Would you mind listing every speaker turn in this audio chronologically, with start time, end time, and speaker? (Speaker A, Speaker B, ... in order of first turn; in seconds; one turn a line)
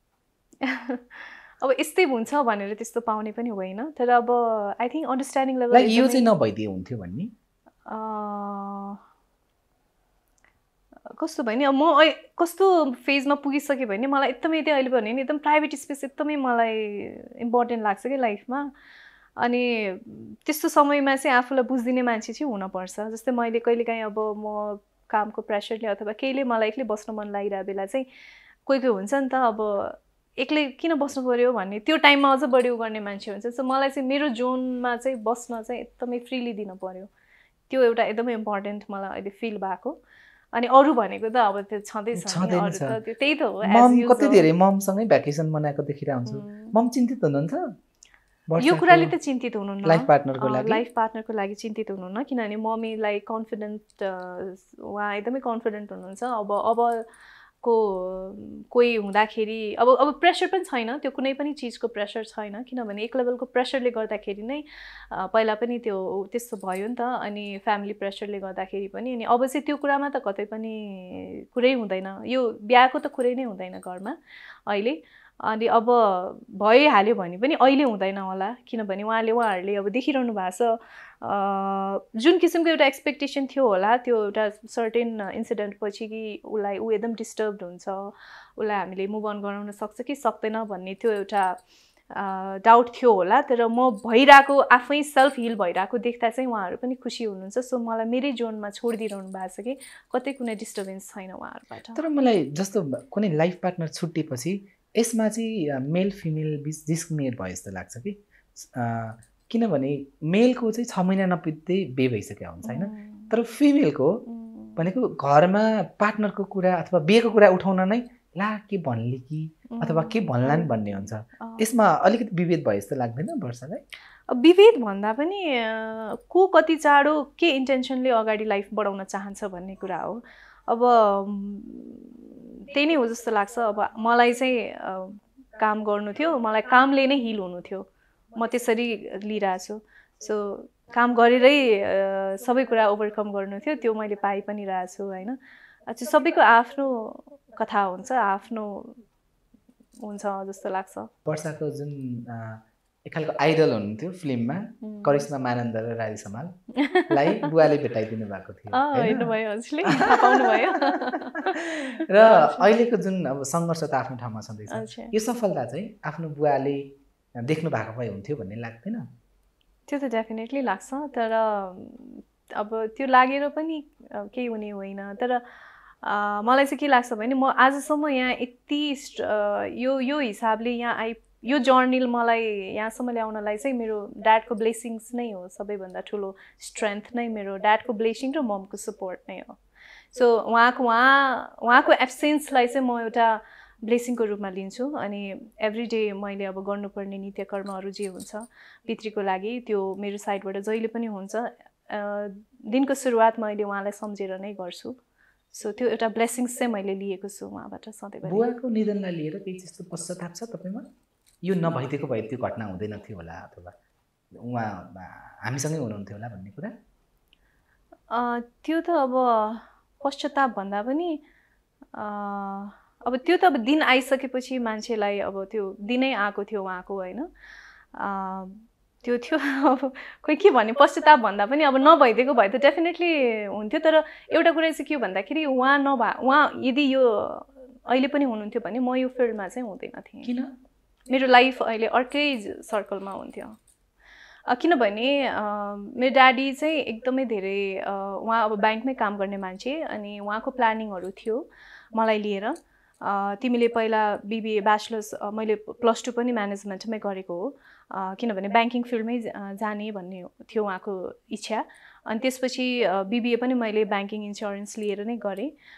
Speaker A: 0.6-6.2
Speaker B: 5.7-7.3
Speaker A: 7.9-9.0
Speaker A: 11.2-18.7
Speaker A: 19.4-28.0
Speaker A: 28.6-37.1
Speaker A: 37.7-40.0
Speaker A: 40.5-44.5
Speaker B: 42.1-43.0
Speaker B: 43.6-47.6
Speaker A: 46.3-46.7
Speaker B: 48.5-49.1
Speaker A: 48.6-57.0
Speaker B: 49.8-50.8
Speaker A: 57.6-74.2
Speaker A: 74.7-91.6
Speaker A: 92.1-102.0
Speaker B: 101.9-114.2
Speaker A: 112.6-113.3
Speaker A: 114.2-114.8
Speaker B: 114.8-123.8
Speaker A: 119.7-121.7
Speaker A: 124.3-145.4
Speaker A: 145.9-149.0
Speaker A: 150.0-151.1
Speaker B: 151.2-156.5
Speaker A: 154.8-155.2
Speaker A: 156.8-157.5
Speaker B: 157.1-159.3
Speaker A: 158.7-162.7
Speaker B: 159.8-169.0
Speaker A: 164.7-165.1
Speaker A: 169.9-175.4
Speaker A: 176.0-189.6
Speaker A: 190.1-204.9
Speaker A: 205.5-208.5
Speaker B: 208.2-210.8
Speaker B: 211.4-213.7
Speaker B: 214.3-216.7
Speaker A: 218.1-221.2
Speaker A: 221.9-227.3
Speaker A: 227.9-240.3
Speaker B: 240.2-240.5
Speaker A: 241.1-243.6
Speaker A: 244.5-265.5